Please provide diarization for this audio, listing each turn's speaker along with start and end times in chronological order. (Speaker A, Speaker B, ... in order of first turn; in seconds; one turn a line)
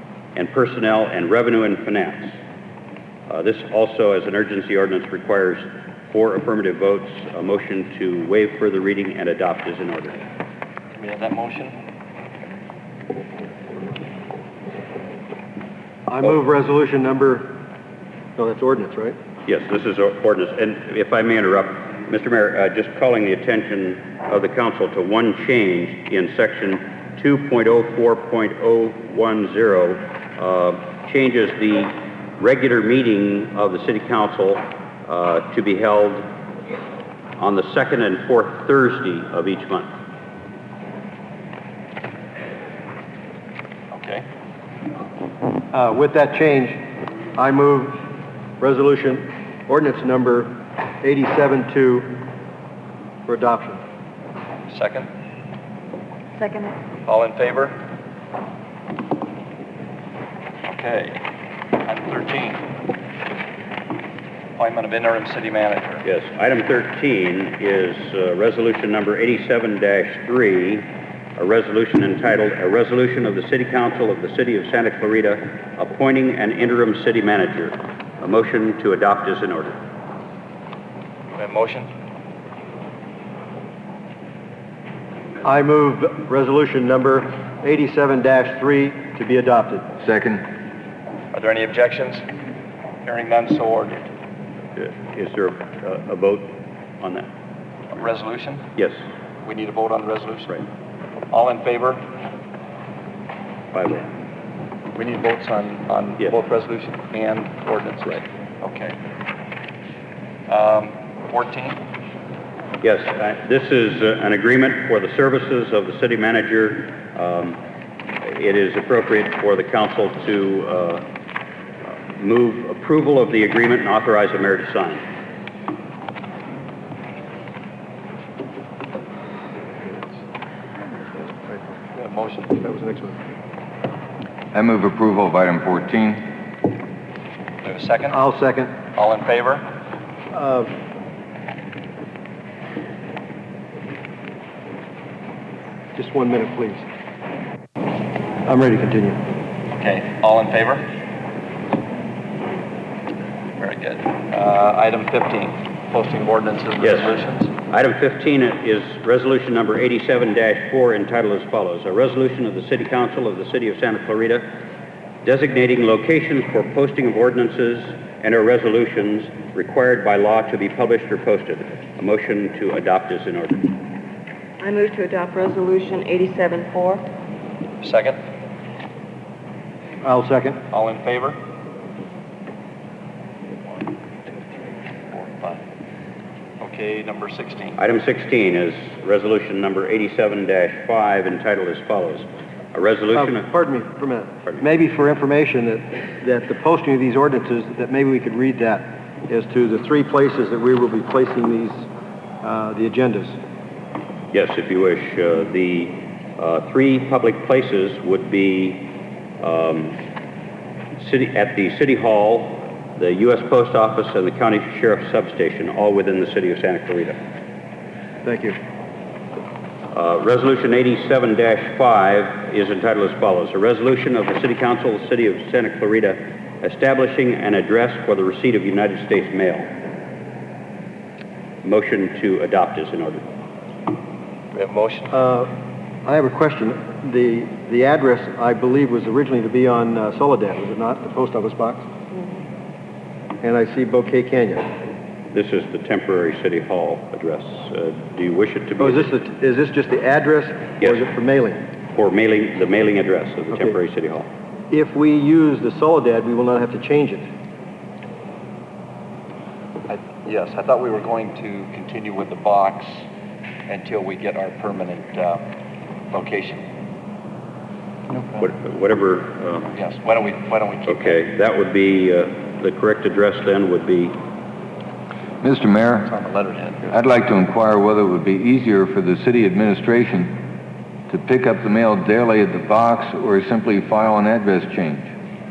Speaker A: 0.3-2.3
Speaker A: 3.3-10.2
Speaker B: 10.9-11.8
Speaker C: 16.1-17.6
Speaker C: 18.4-19.2
Speaker A: 19.5-36.3
Speaker A: 37.4-39.9
Speaker B: 43.9-44.3
Speaker C: 45.7-46.8
Speaker C: 47.4-48.0
Speaker C: 48.6-52.3
Speaker C: 53.3-53.8
Speaker B: 54.7-55.1
Speaker D: 56.4-56.7
Speaker B: 57.1-57.8
Speaker B: 60.7-61.2
Speaker B: 61.8-62.8
Speaker B: 64.6-66.0
Speaker A: 66.0-79.8
Speaker B: 81.3-81.9
Speaker C: 85.4-89.9
Speaker E: 90.0-90.5
Speaker B: 91.3-92.3
Speaker B: 93.0-94.1
Speaker A: 94.8-97.3
Speaker B: 97.9-98.7
Speaker B: 99.4-100.5
Speaker B: 101.3-102.1
Speaker A: 103.7-104.1
Speaker B: 105.0-109.0
Speaker B: 110.5-111.8
Speaker A: 112.8-117.6
Speaker A: 118.2-121.1
Speaker A: 121.9-125.0
Speaker C: 131.2-131.8
Speaker B: 131.9-132.6
Speaker C: 132.6-133.2
Speaker E: 134.5-136.4
Speaker B: 137.6-138.2
Speaker C: 138.1-138.8
Speaker B: 138.9-139.7
Speaker C: 140.3-140.7
Speaker C: 145.9-146.8
Speaker C: 148.4-149.2
Speaker B: 149.7-150.9
Speaker B: 153.6-157.5
Speaker A: 156.8-164.5
Speaker A: 165.2-173.8
Speaker D: 174.6-177.0
Speaker B: 177.8-178.2
Speaker C: 180.0-180.6
Speaker B: 180.7-181.4
Speaker B: 183.7-185.6
Speaker B: 186.6-187.8
Speaker A: 187.8-193.5
Speaker C: 193.1-201.9
Speaker C: 202.4-203.3
Speaker A: 204.3-210.0
Speaker A: 211.0-217.2
Speaker C: 218.2-218.6
Speaker A: 219.9-229.7
Speaker A: 231.6-233.3
Speaker B: 234.5-235.1
Speaker C: 235.1-235.5
Speaker C: 236.1-241.8
Speaker C: 243.4-244.7
Speaker A: 245.3-249.1
Speaker C: 248.8-251.7
Speaker A: 251.9-254.3
Speaker C: 254.7-257.3
Speaker B: 259.9-263.1
Speaker B: 263.7-265.5
Speaker B: 266.1-266.6
Speaker A: 268.4-269.7
Speaker B: 269.7-271.2
Speaker A: 270.9-274.2
Speaker E: 275.4-276.2
Speaker B: 276.1-276.9
Speaker E: 276.9-280.5
Speaker E: 281.1-285.1